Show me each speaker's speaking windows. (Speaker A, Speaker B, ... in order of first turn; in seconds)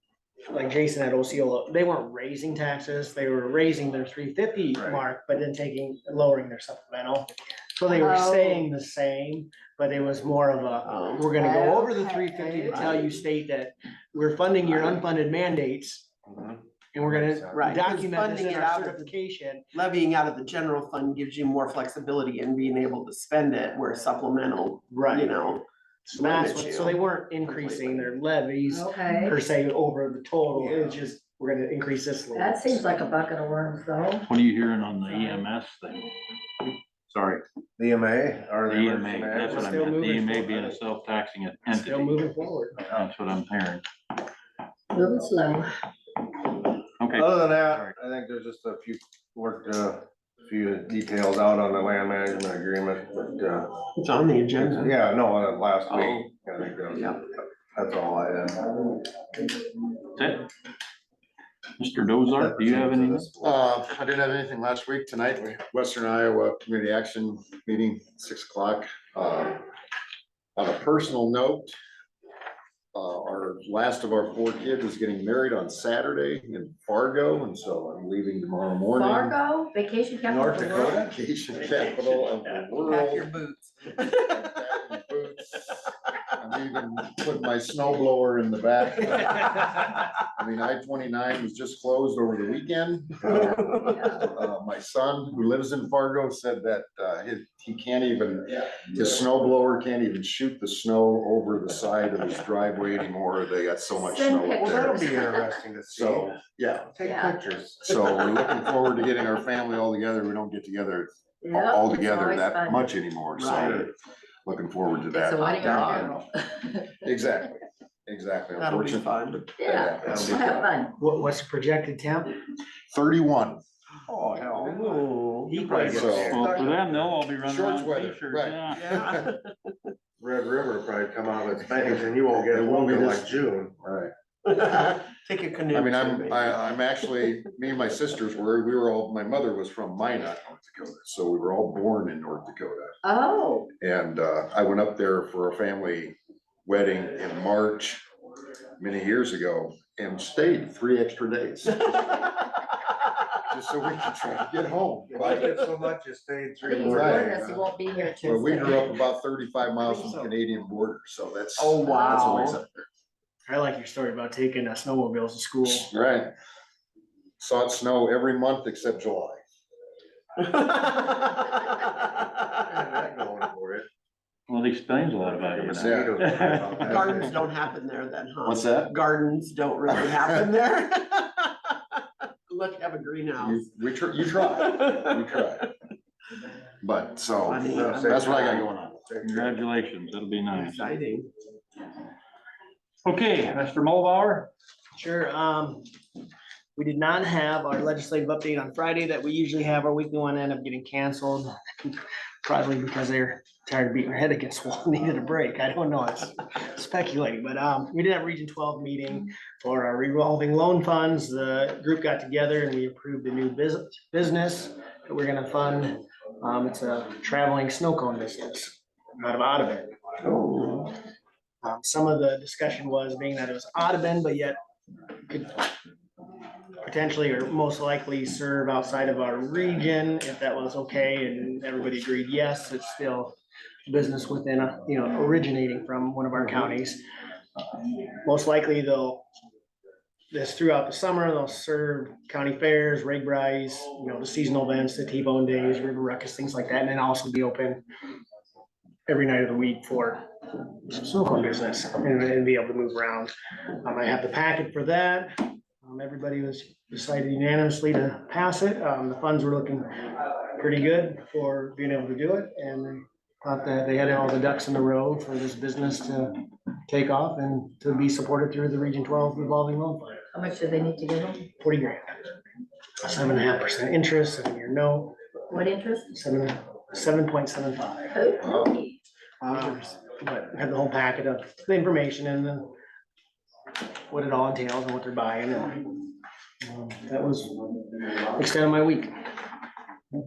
Speaker A: 0.5-16.1, 16.9-19.7, 24.9-25.4, 26.1-32.9, 39.4-40.7, 41.7-42.8, 121.0-122.4, 125.5-126.3, 158.1-158.6, 163.5-165.9, 195.0-195.8, 196.8-219.9, 221.6-224.6, 225.3-225.7, 226.8-233.3, 233.9-237.0, 238.2-239.2, 240.3-247.8, 249.1-259.9, 260.6-266.3, 266.9-270.2, 271.6-272.2, 273.0-275.2, 276.1-278.2, 279.4-282.7, 284.1-286.0, 286.6-289.1
Speaker B: 4.8-5.0, 16.3-17.7, 37.1-39.9, 47.1-53.7, 54.6-58.8, 62.4-63.8, 80.3-81.0, 104.5-108.3, 120.0-120.7, 124.0-125.1, 125.6-127.1, 130.2-133.8, 155.1-157.6, 172.7-173.9, 175.5-177.4, 187.6-189.6
Speaker C: 7.9-8.7, 11.3-12.9, 28.7-29.4, 32.3-34.3, 44.9-45.7, 78.9-81.0, 104.0-105.5, 107.0-107.4, 111.4-113.0, 115.1-117.1, 119.6-121.0, 143.0-143.7, 156.6-158.8, 161.8-162.5, 270.3-271.5, 275.5-276.2, 278.1-278.9
Speaker D: 10.8-11.3, 12.7-13.2, 17.6-19.1, 19.7-28.2, 54.0-55.0, 81.7-84.7, 93.3-94.1, 113.4-113.9, 115.6-116.1, 118.6-119.5, 124.6-126.1, 128.7-129.9, 134.4-137.4, 161.6-162.6, 170.4-172.5, 176.9-183.7, 184.4-185.2, 187.5-188.6, 190.5-191.3, 220.2-220.9
Speaker E: 34.2-36.1, 38.7-42.2, 42.8-43.8, 47.0-47.9, 55.9-56.3, 60.2-60.5, 61.8-63.3, 126.2-128.9, 174.5-177.1, 188.3-190.9, 193.1-194.5
Speaker F: 63.4-69.7, 70.6-71.8, 72.9-79.4, 80.4-83.3, 84.3-105.1, 105.9-106.9, 107.8-113.9, 114.5-116.2, 117.0-120.4, 122.9-123.6, 125.8-126.4, 127.5-129.2, 132.5-134.1, 135.7-142.9, 143.8-146.2, 146.7-148.0, 148.8-151.9, 153.5-155.6, 156.8-157.7, 158.2-162.7, 165.7-166.3, 167.4-169.4, 175.8-176.1, 178.4-178.9, 179.9-180.4, 183.4-185.7, 186.8-188.7, 278.4-278.8